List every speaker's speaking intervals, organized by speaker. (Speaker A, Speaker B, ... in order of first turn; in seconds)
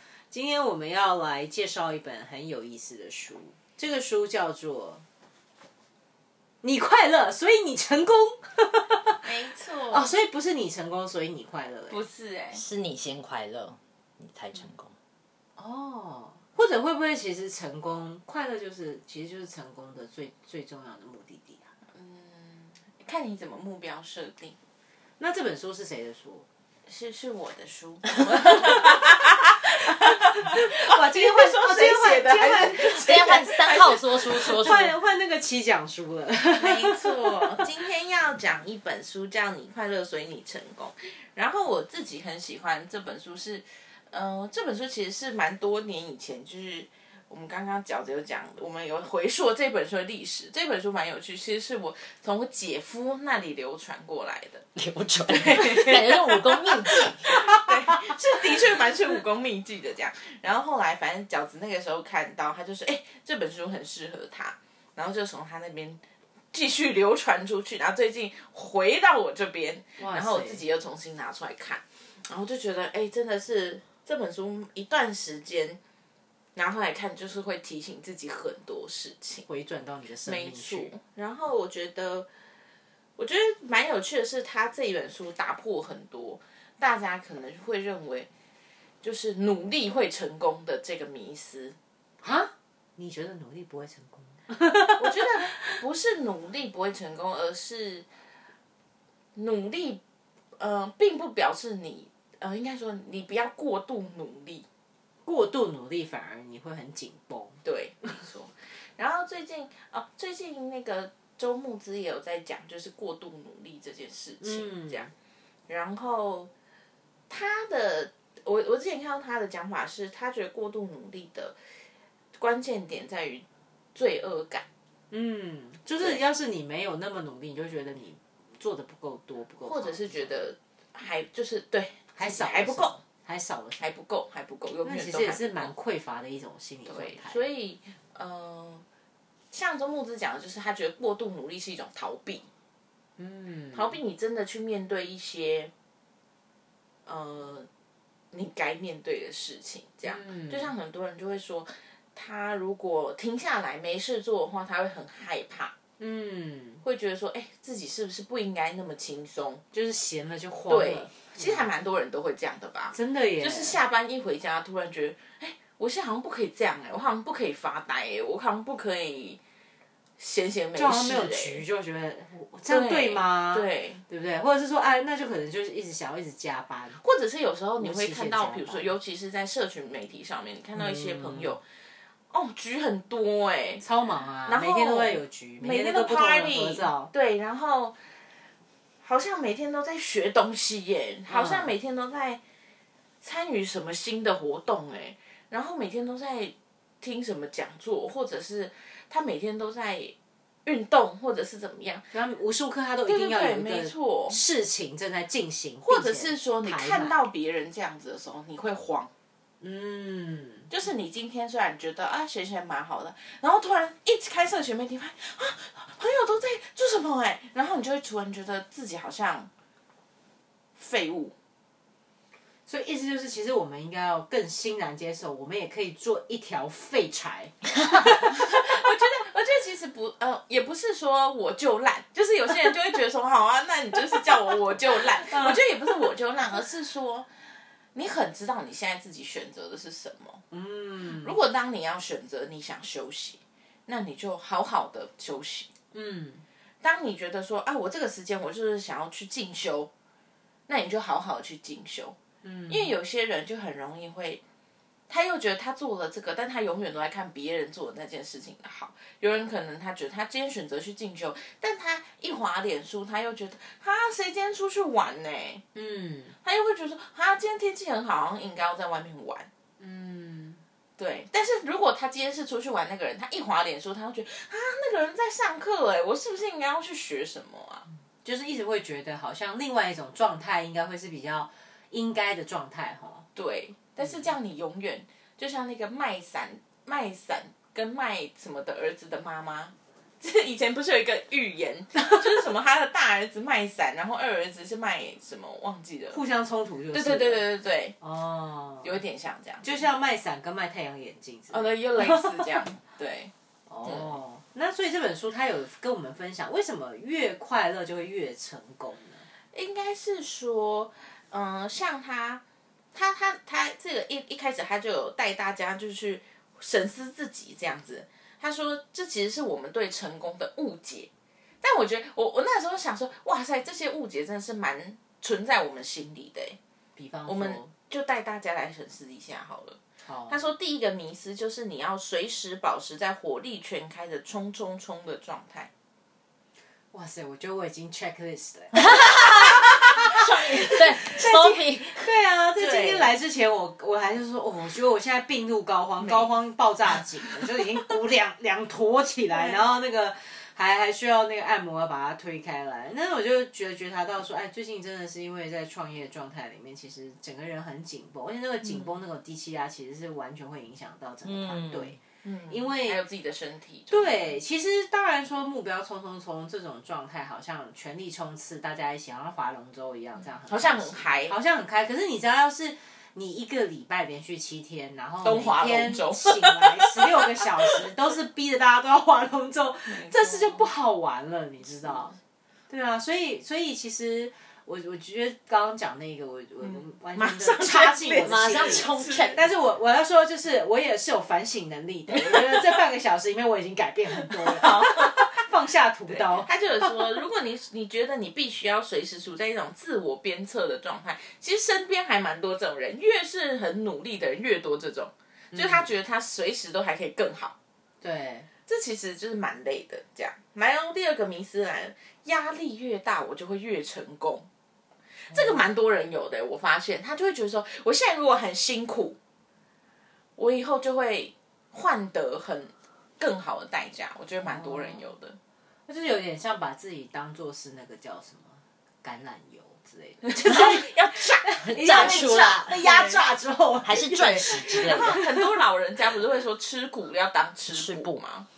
Speaker A: 0.3-5.0, 6.6-9.2, 9.9-12.0, 15.6-21.7, 25.2-26.4, 28.4-28.8, 29.9-33.1, 34.4-37.6, 70.0-70.6, 79.5-80.9, 92.2-95.5, 105.2-107.6, 114.4-115.1, 125.1-130.3, 132.2-133.8, 134.8-137.4, 143.2-143.9, 150.0-150.7, 156.0-156.8, 159.7-161.7, 162.9-163.8, 170.8-177.0, 177.8-178.9, 180.8-181.6, 183.8-187.1, 191.3-191.7, 202.1-207.2, 209.6-210.7, 222.7-228.6, 235.2-235.6, 240.5-241.3, 245.9-246.4, 252.4-252.9, 265.7-266.4, 269.8-270.6, 278.2-283.2, 284.0-284.3, 296.1-297.4, 298.0-299.0, 299.6-302.5, 303.7-309.2, 326.9-327.7, 330.0-330.4, 336.9-363.0, 363.9-382.1, 382.7-397.2, 405.5-405.9, 408.0-408.5, 415.3-415.6, 424.4-425.0, 425.9-435.6
Speaker B: 9.2-10.1, 11.9-12.6, 21.9-24.6, 26.9-34.7, 36.6-54.7, 55.3-66.0, 66.5-75.8, 76.5-79.5, 80.2-82.3, 83.2-88.3, 89.0-91.8, 94.9-98.0, 99.3-100.0, 100.6-104.7, 107.6-115.1, 115.7-116.5, 117.3-121.5, 122.4-123.4, 123.9-124.7, 129.6-133.0, 133.8-135.7, 136.9-138.8, 139.5-142.5, 143.7-145.7, 147.1-147.7, 148.3-155.7, 156.8-159.6, 160.7-169.4, 170.2-171.6, 172.7-174.0, 177.0-181.6, 182.3-183.8, 184.5-188.0, 189.0-192.4, 193.2-200.1, 200.7-202.1, 203.1-204.4, 205.8-209.1, 210.7-219.5, 220.8-221.3, 227.9-237.3, 237.9-240.4, 241.2-245.7, 246.8-249.9, 250.7-252.2, 252.7-254.4, 255.1-265.6, 266.4-269.5, 271.0-277.8, 283.4-296.2, 296.9-297.9, 298.8-299.6, 301.5-303.3, 303.8-304.1, 309.5-312.4, 312.9-321.1, 321.6-326.6, 327.3-335.7, 342.6-343.1, 346.0-346.3, 349.3-349.6, 362.2-364.4, 370.5-371.4, 375.2-377.6, 379.9-380.7, 386.6-389.4, 392.2-392.5, 394.3-395.3, 396.1-407.5, 408.7-414.5, 415.3-419.2, 420.4-425.4, 430.2-433.3, 434.1-438.5
Speaker C: 12.5-14.9, 32.8-34.9, 54.8-57.6, 338.7-342.1, 361.2-362.0, 388.2-389.4, 431.6-432.8, 433.8-435.3, 437.7-438.2